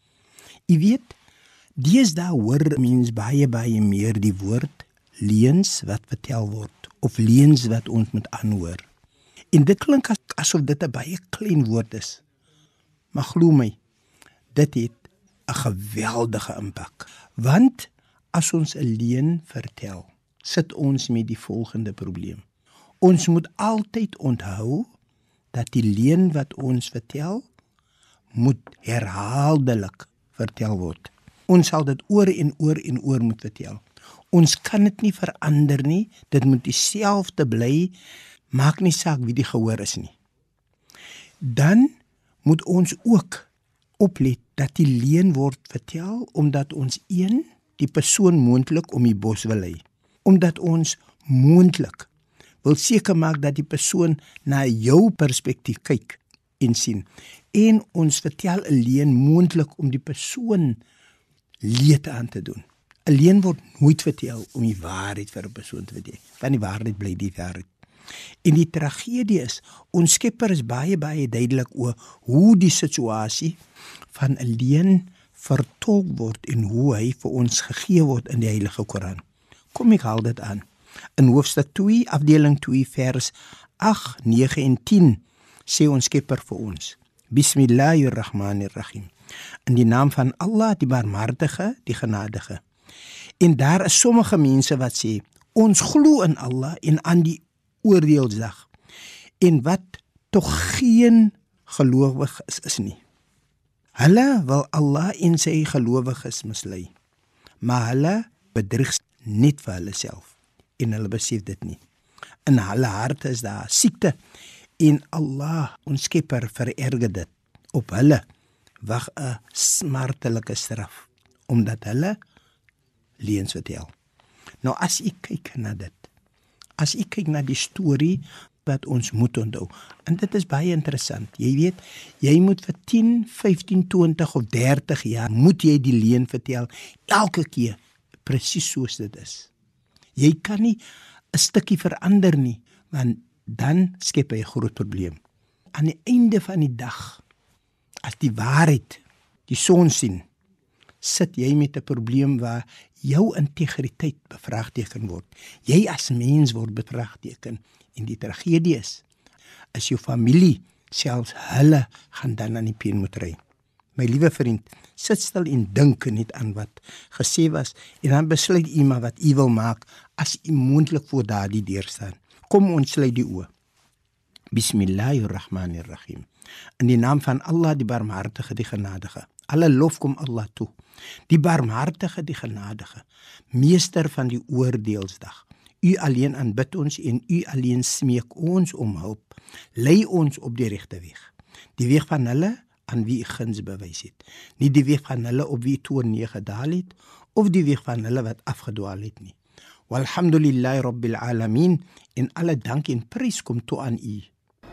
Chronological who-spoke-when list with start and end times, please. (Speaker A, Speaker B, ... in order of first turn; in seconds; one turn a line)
Speaker A: 0.7-1.1
Speaker A: 1.8-8.8
Speaker A: 9.5-12.2
Speaker A: 13.1-13.8
Speaker A: 14.5-22.4
Speaker A: 23.0-24.9
Speaker A: 25.5-27.5
Speaker A: 28.4-37.9
Speaker A: 38.5-40.1
Speaker A: 41.4-41.9
Speaker A: 42.4-43.5
Speaker A: 44.0-52.1
Speaker A: 52.6-60.8
Speaker A: 61.6-67.7
Speaker A: 68.4-73.6
Speaker A: 74.1-79.2
Speaker A: 79.7-80.6
Speaker A: 81.2-89.1
Speaker A: 89.7-92.6
Speaker A: 93.4-98.7
Speaker A: 99.4-103.0
Speaker A: 104.0-106.9
Speaker A: 107.6-111.8
Speaker A: 112.5-114.1
Speaker A: 114.8-118.2
Speaker A: 118.8-122.2
Speaker A: 123.2-123.9
Speaker A: 124.6-126.1
Speaker A: 126.8-139.5
Speaker A: 140.2-140.8
Speaker A: 141.3-145.2
Speaker A: 145.7-147.2
Speaker A: 148.0-150.2
Speaker A: 151.0-159.0
Speaker A: 159.7-163.4
Speaker A: 164.0-173.5
Speaker A: 174.5-176.3
Speaker A: 176.8-180.7
Speaker A: 181.3-199.3
Speaker A: 199.9-204.3